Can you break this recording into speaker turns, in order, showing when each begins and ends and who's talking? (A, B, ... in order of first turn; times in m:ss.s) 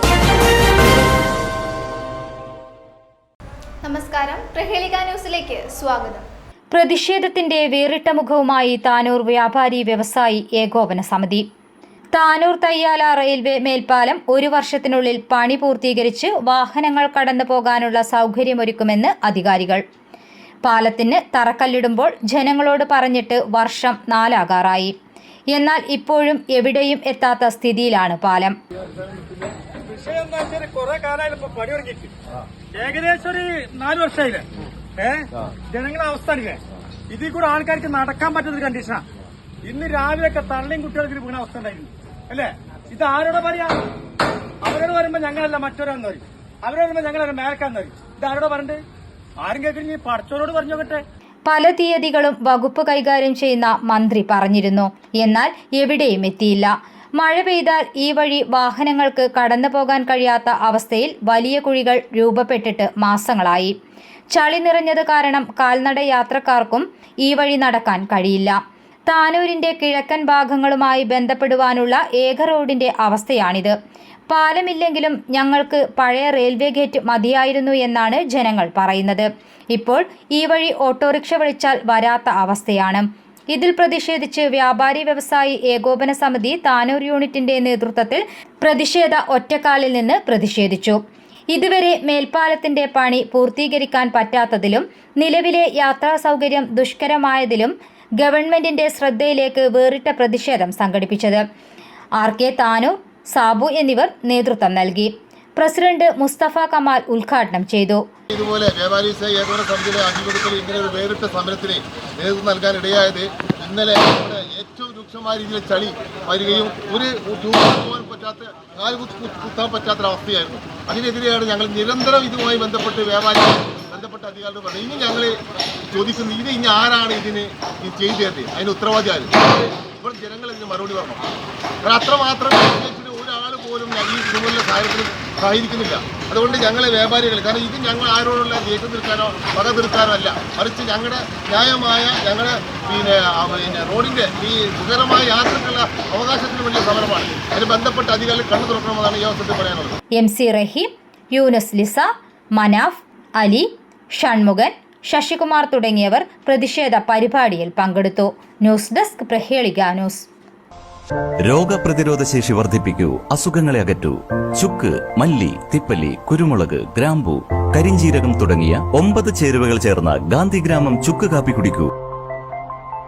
0:03.8-0:06.2 A
0:06.7-0:11.4 B
0:12.1-0:19.8 B
0:20.6-0:24.9 B
0:25.5-0:28.5 B
0:29.8-0:32.1 C
0:32.7-0:34.4 C
0:35.0-0:39.0 C
0:39.6-0:43.8 C
0:44.6-0:48.8 C
0:49.4-0:51.0 C
0:51.4-1:03.7 B
1:04.3-1:13.7 B
1:14.3-1:31.0 B
1:31.5-1:41.4 B
1:42.2-1:48.0 B
1:48.3-2:05.4 D
2:05.9-2:11.2 D
2:11.8-2:30.0 D
2:30.2-2:40.3 B
2:41.4-2:51.9 E